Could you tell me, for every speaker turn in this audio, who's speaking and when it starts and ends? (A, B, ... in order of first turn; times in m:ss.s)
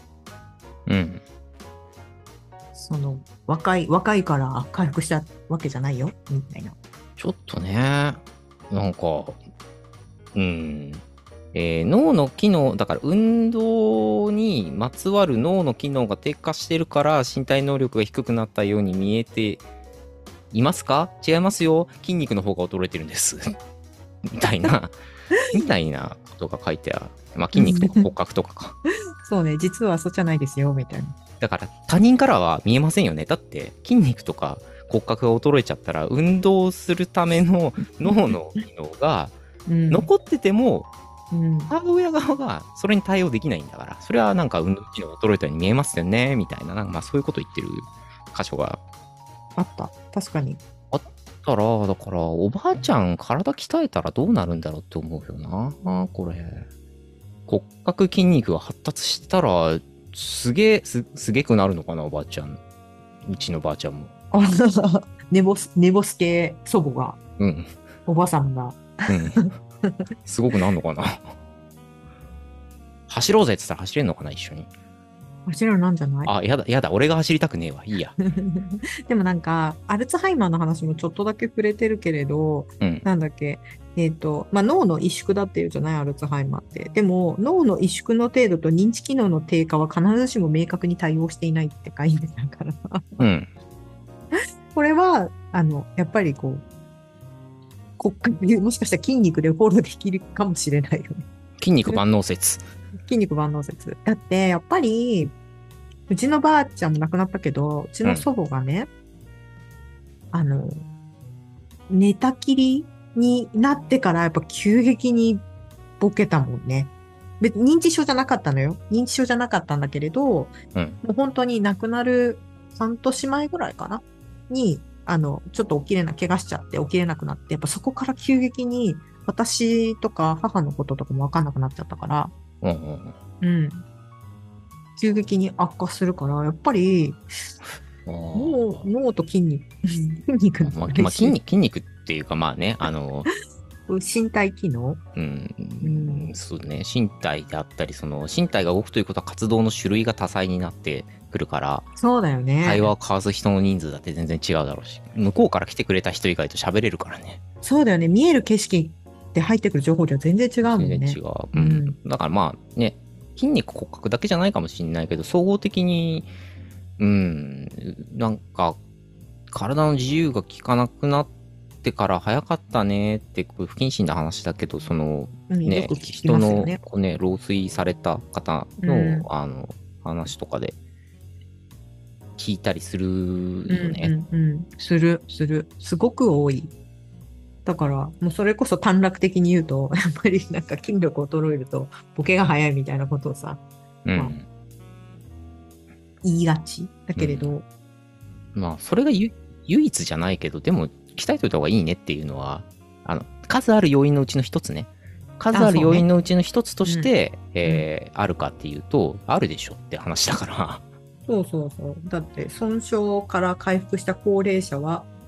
0:00.9-0:01.2 A
0:02.8-0:06.8 B
0:07.2-0:09.4 A
0:10.3-0:19.6 A
0:20.5-0:23.6 A
0:24.2-0:25.0 A
0:25.5-0:28.8 A
0:27.5-0:28.1 B
0:29.2-0:31.2 B
0:31.4-0:39.4 A
0:39.7-0:40.1 B
0:39.9-0:40.9 A
0:41.3-0:41.7 B
0:41.7-0:48.8 A
0:49.6-0:50.6 B
0:50.9-0:56.7 A
0:57.5-1:02.6 A
1:03.2-1:04.1 A
1:04.3-1:07.2 B
1:07.4-1:07.7 A
1:08.1-1:09.9 B
1:09.1-1:09.4 A
1:10.2-1:11.4 A
1:13.1-1:14.7 A
1:15.5-1:16.3 B
1:16.2-1:18.2 A
1:18.3-1:33.3 B
1:33.2-1:33.5 A
1:34.7-1:36.6 B
1:38.0-1:41.2 B
1:41.6-1:42.6 A
1:43.1-1:45.3 B
1:46.1-1:48.9 B
1:50.3-1:50.8 B
1:51.9-1:55.4 B
1:56.0-2:12.3 B
2:00.8-2:01.0 A
2:12.6-2:13.2 A
2:13.4-2:13.8 B
2:15.0-2:17.2 B
2:18.0-2:18.9 A
2:18.3-2:21.4 B
2:20.6-2:23.3 A
2:23.9-2:25.0 B
2:25.2-2:31.9 A
2:25.8-2:26.3 B
2:32.0-2:32.9 B
2:32.6-2:37.4 A
2:37.6-2:42.0 B
2:40.6-2:46.3 A
2:47.0-2:48.8 A
2:49.5-2:51.3 A
2:51.8-3:00.8 A
2:55.5-2:56.8 B
2:58.8-2:59.3 B
3:02.4-3:04.1 A
3:03.7-3:06.7 B
3:07.6-3:13.6 B
3:14.0-3:14.5 A
3:16.2-3:17.6 B
3:17.2-3:17.5 A
3:18.6-3:30.8 A
3:25.5-3:26.1 B
3:26.8-3:27.1 B
3:31.3-3:35.1 B